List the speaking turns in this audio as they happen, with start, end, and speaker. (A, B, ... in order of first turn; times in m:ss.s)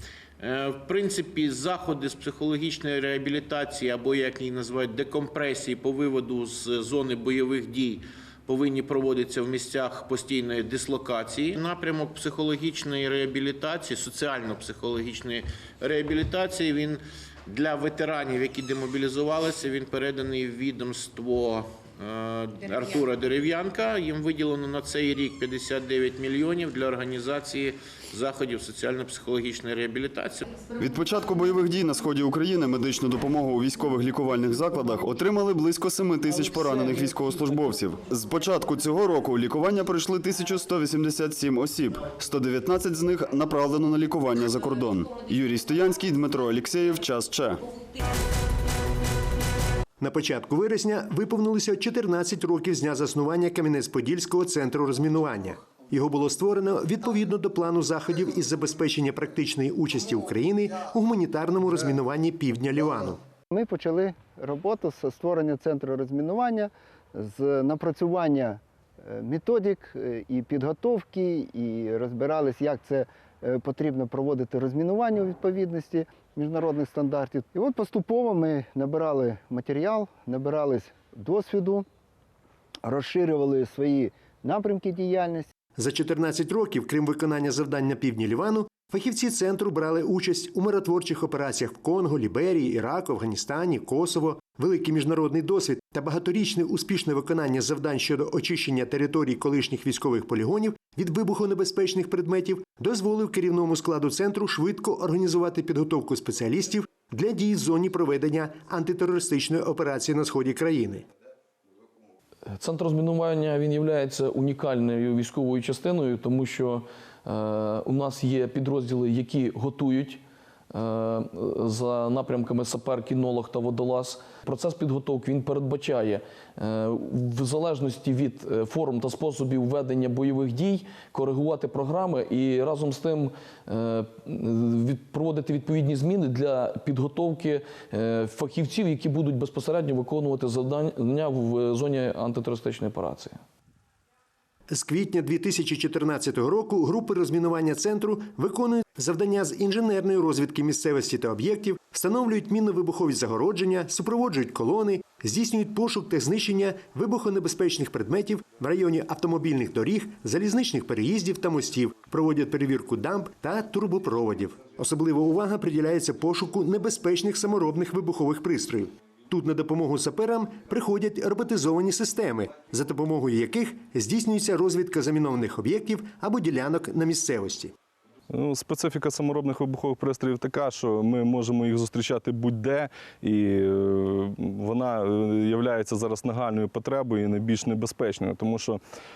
0:00.4-0:30.4 A
0:30.7-0:47.6 B
0:50.0-1:03.2 C
1:03.5-1:21.8 D
1:22.8-1:25.5 D
1:25.8-1:51.0 C
1:52.5-2:23.4 E
2:24.7-2:57.7 C
2:58.3-3:08.8 F